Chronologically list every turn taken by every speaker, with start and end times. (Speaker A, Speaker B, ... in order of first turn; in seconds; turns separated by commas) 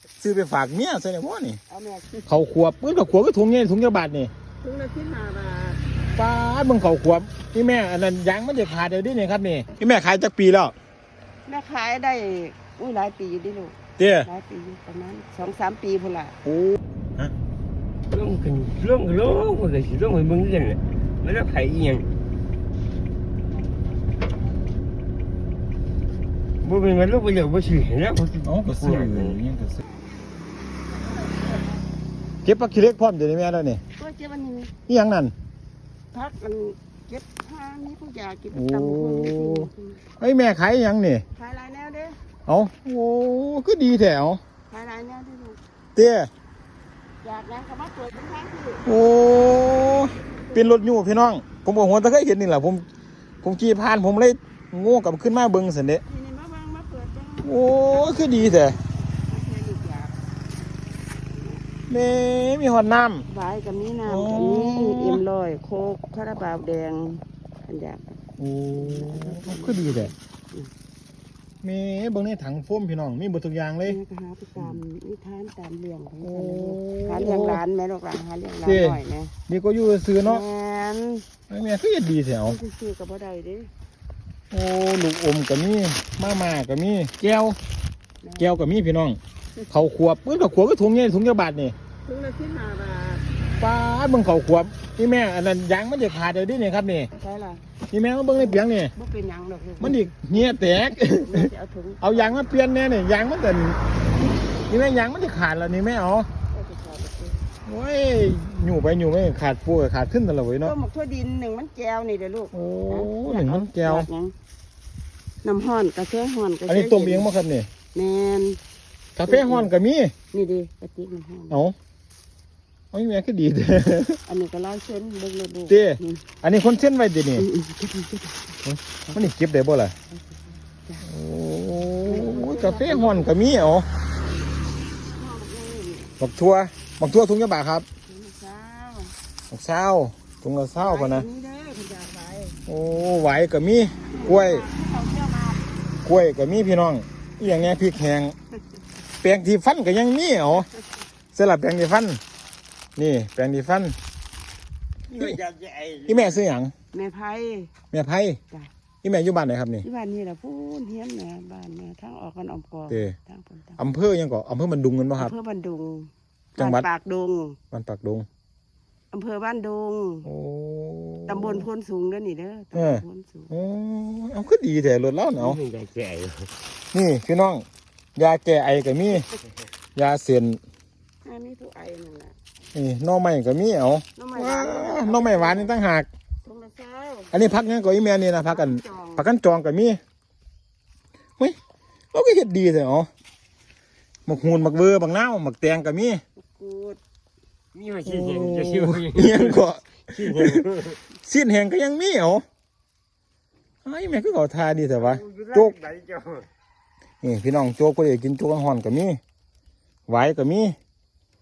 Speaker A: 0.2-1.6, Speaker B: 1.7-2.4, Speaker A: 2.3-4.3, Speaker B: 4.6-5.8, Speaker A: 6.2-10.8, Speaker B: 11.5-16.4, Speaker A: 14.0-14.3, Speaker A: 16.4-17.3, Speaker C: 18.1-22.1, Speaker C: 26.6-29.4, Speaker A: 28.4-29.8, Speaker B: 30.9-31.8, Speaker A: 32.5-33.8, Speaker B: 34.0-34.7, Speaker A: 34.9-35.3, Speaker B: 36.1-40.0, Speaker A: 38.5-39.7, Speaker A: 40.2-41.2, Speaker B: 41.4-42.2, Speaker A: 42.5-44.4, Speaker B: 44.7-45.6, Speaker A: 46.0-46.3, Speaker B: 47.2-48.9, Speaker A: 48.9-52.9, Speaker A: 53.4-56.0, Speaker B: 56.1-60.2, Speaker A: 57.4-58.8, Speaker B: 61.3-61.6, Speaker A: 61.9-63.3, Speaker B: 63.3-68.2, Speaker A: 64.1-65.2, Speaker A: 68.4-70.1, Speaker B: 68.7-70.7, Speaker A: 71.6-74.0, Speaker B: 73.9-79.3, Speaker A: 76.2-77.6, Speaker A: 78.6-80.4, Speaker B: 80.2-81.3, Speaker A: 81.5-82.6, Speaker B: 82.4-83.7, Speaker A: 84.5-87.6, Speaker B: 88.2-88.6, Speaker A: 88.4-89.2, Speaker A: 89.7-91.8, Speaker B: 92.0-93.2, Speaker A: 93.6-97.1, Speaker B: 97.2-97.6, Speaker A: 97.9-98.9, Speaker B: 98.4-100.5, Speaker A: 99.8-103.8, Speaker B: 101.2-102.4, Speaker A: 104.7-106.3, Speaker B: 106.5-107.4, Speaker A: 107.7-110.7, Speaker B: 110.6-114.3, Speaker A: 112.5-114.1, Speaker B: 115.4-117.3, Speaker A: 116.7-117.7, Speaker B: 117.9-118.6, Speaker A: 119.2-120.1, Speaker B: 119.2-119.7, Speaker B: 120.3-121.6, Speaker A: 121.5-121.8, Speaker A: 122.9-124.2, Speaker B: 124.3-126.2, Speaker A: 125.7-127.5, Speaker B: 127.4-129.2, Speaker A: 128.7-129.9, Speaker B: 130.1-131.1, Speaker A: 131.0-133.9, Speaker B: 132.0-133.3, Speaker B: 135.2-136.1, Speaker A: 136.2-137.9, Speaker B: 138.1-139.1, Speaker A: 139.5-141.3, Speaker B: 140.8-142.6, Speaker A: 142.7-144.7, Speaker B: 144.1-145.7, Speaker A: 146.1-148.3, Speaker A: 149.2-150.7, Speaker A: 151.3-152.2, Speaker A: 153.0-153.9, Speaker C: 155.1-156.3, Speaker A: 156.1-156.7, Speaker B: 156.9-157.7, Speaker A: 157.9-158.4, Speaker A: 159.0-159.8, Speaker B: 159.8-163.8, Speaker A: 162.9-163.2, Speaker A: 163.8-165.3, Speaker B: 165.2-167.6, Speaker A: 166.6-166.9, Speaker A: 167.7-168.3, Speaker B: 169.1-170.3, Speaker A: 170.2-171.7, Speaker B: 171.3-173.5, Speaker A: 172.7-175.6, Speaker C: 175.3-176.5, Speaker A: 176.9-177.7, Speaker A: 178.2-179.3, Speaker A: 179.9-180.6, Speaker B: 181.2-182.3, Speaker A: 182.7-186.1, Speaker B: 184.2-185.8, Speaker B: 186.4-187.4, Speaker A: 187.3-190.0, Speaker B: 188.5-189.3, Speaker A: 192.1-193.1, Speaker A: 194.3-196.2, Speaker B: 196.4-197.0, Speaker C: 197.7-201.0, Speaker A: 198.1-200.6, Speaker A: 201.2-202.4, Speaker A: 203.8-205.8, Speaker C: 205.0-206.5, Speaker A: 207.2-209.2, Speaker A: 210.1-210.8